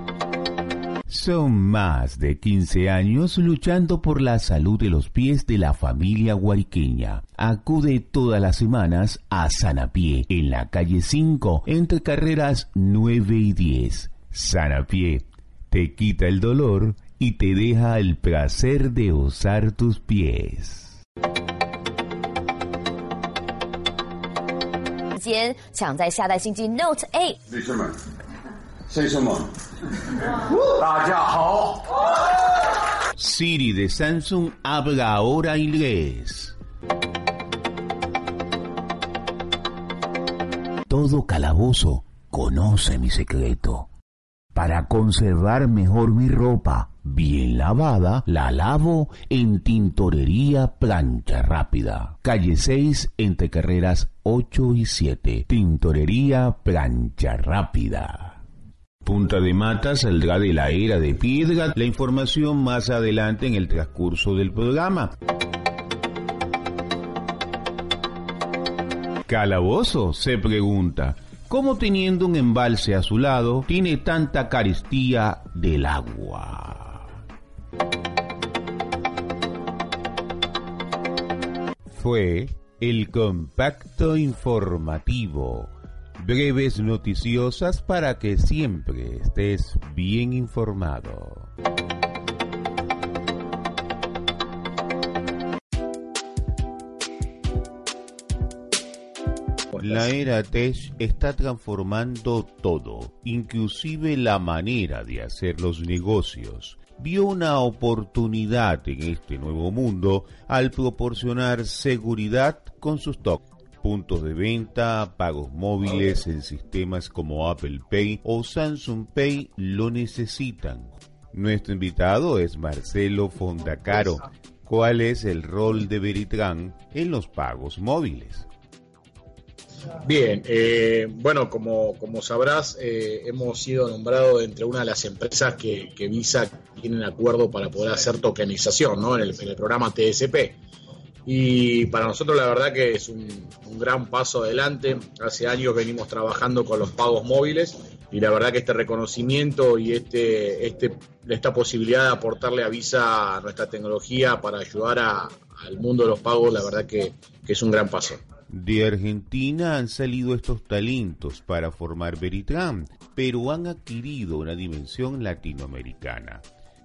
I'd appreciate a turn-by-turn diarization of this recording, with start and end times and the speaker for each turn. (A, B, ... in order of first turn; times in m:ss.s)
0:01.1-0:21.0 A
0:25.2-0:27.4 B
0:27.5-0:28.0 C
0:28.9-0:32.1 C
0:33.2-0:36.6 A
0:40.9-0:43.9 A
0:44.6-0:58.4 A
0:59.0-1:05.1 A
1:09.3-1:17.2 A
1:21.9-1:31.5 A
1:39.8-1:40.1 D
1:39.8-2:08.5 A
2:10.0-2:20.6 D
2:21.3-2:38.2 D
2:38.5-2:46.4 A